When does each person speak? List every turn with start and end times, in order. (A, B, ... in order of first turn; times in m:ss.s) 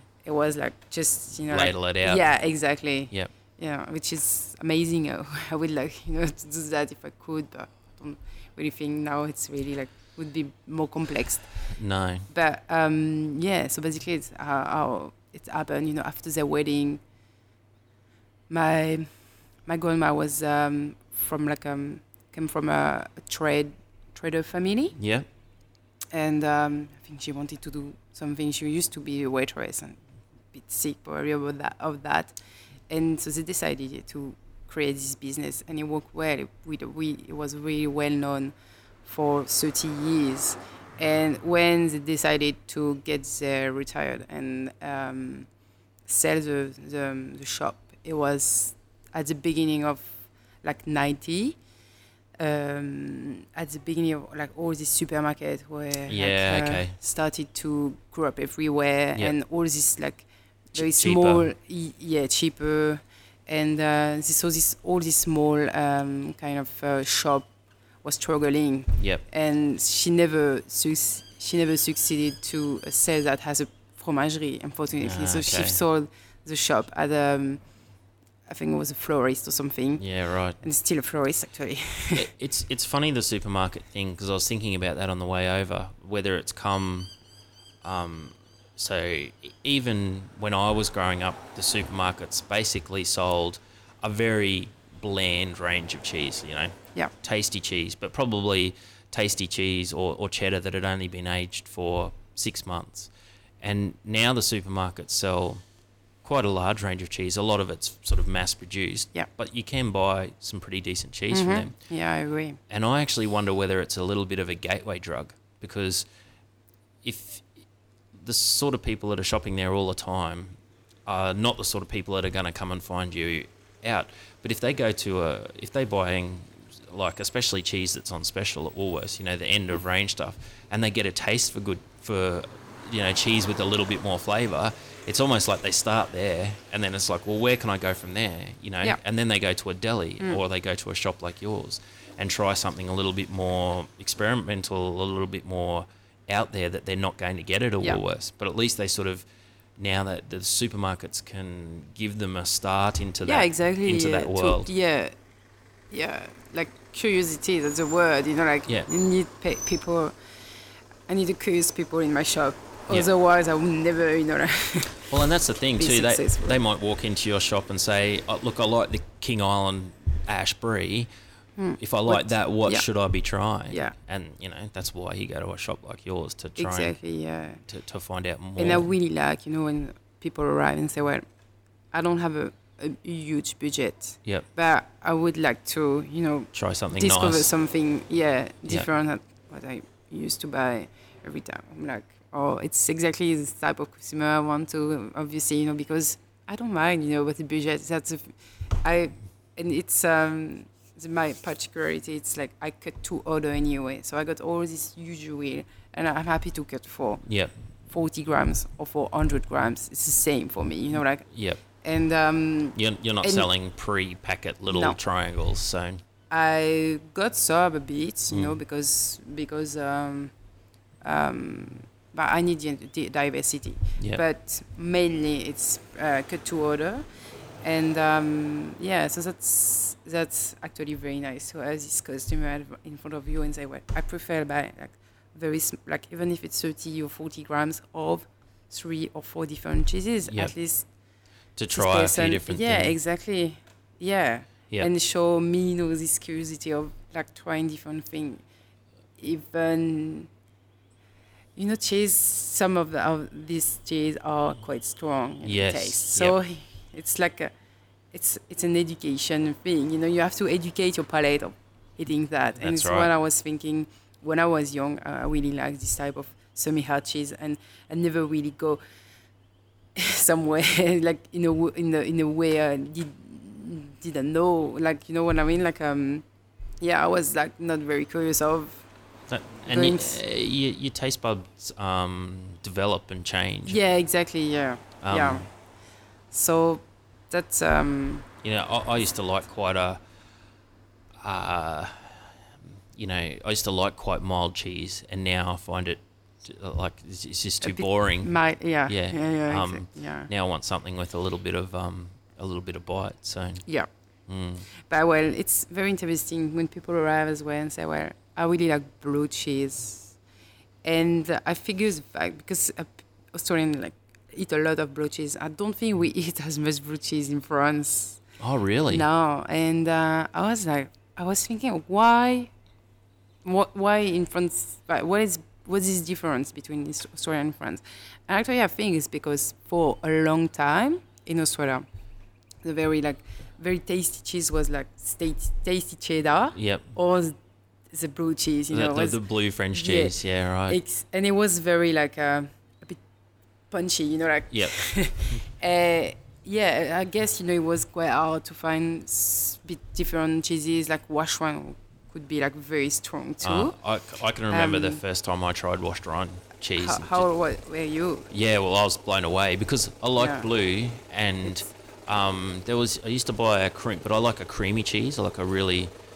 0:00.2-0:11.5 A
0:01.5-0:02.3 B
0:11.7-0:12.3 B
0:12.3-0:17.0 A
0:18.5-0:19.1 A
0:19.6-0:25.0 A
0:25.0-0:25.2 B
0:26.1-0:30.0 A
0:30.5-0:32.4 A
0:32.9-0:45.5 A
0:46.1-0:51.6 A
0:52.4-1:07.5 A
0:56.1-0:57.0 B
1:00.8-1:01.5 B
1:08.0-1:17.6 A
1:09.0-1:09.2 B
1:15.0-1:15.8 B
1:18.5-1:20.0 A
1:20.0-1:20.6 B
1:20.6-1:22.2 A
1:22.1-1:27.1 B
1:27.8-1:45.6 B
1:46.2-1:51.7 B
1:51.3-1:52.6 A
1:52.7-1:56.1 B
1:57.0-1:57.5 B
1:58.1-2:29.2 B
2:29.8-2:34.7 B
2:33.2-2:35.2 A
2:35.9-2:40.1 A
2:41.1-2:45.1 A
2:45.1-2:51.1 B
2:45.8-2:46.6 A
2:51.6-2:52.9 A
2:51.8-2:56.9 B
2:53.7-2:54.0 A
2:56.6-2:57.6 A
2:57.7-2:58.9 B
2:58.6-3:01.2 A
3:01.9-3:27.2 A
3:06.5-3:07.5 B
3:27.2-3:27.5 B
3:27.9-3:31.2 A
3:31.3-3:31.6 B
3:31.8-3:33.5 A
3:32.8-3:36.0 B
3:34.7-3:35.0 A
3:36.3-3:40.3 A
3:38.3-3:38.6 B
3:41.0-3:47.0 A
3:44.0-3:44.2 B
3:47.6-4:00.9 A
4:00.3-4:00.5 B
4:01.6-4:03.0 B
4:01.7-4:08.4 A
4:09.2-4:10.3 A
4:11.6-4:17.5 A
4:15.4-4:16.4 B
4:18.1-4:28.8 A
4:22.6-4:23.1 B
4:30.0-4:36.2 A
4:36.8-4:38.8 A
4:39.3-4:43.8 B
4:39.6-4:40.2 A
4:43.7-4:45.5 A
4:45.0-4:45.5 B
4:46.3-4:48.2 A
4:48.4-4:50.0 B
4:51.2-4:58.3 B
4:57.6-5:00.3 A
4:58.9-5:03.6 B
5:04.3-5:04.7 B
5:04.8-5:10.2 A
5:10.8-5:18.2 A
5:18.4-5:19.0 B
5:18.9-5:22.5 A
5:23.4-5:31.9 A
5:32.6-5:37.4 A
5:36.5-5:36.8 B
5:37.9-5:39.2 A
5:38.7-5:40.8 B
5:39.7-5:40.2 A
5:40.7-5:43.0 A
5:43.7-5:53.8 A
5:44.5-5:45.4 B
5:53.4-5:57.2 B
5:54.5-5:55.0 A
5:56.8-5:58.3 A
5:58.3-6:05.9 B
6:00.2-6:00.5 A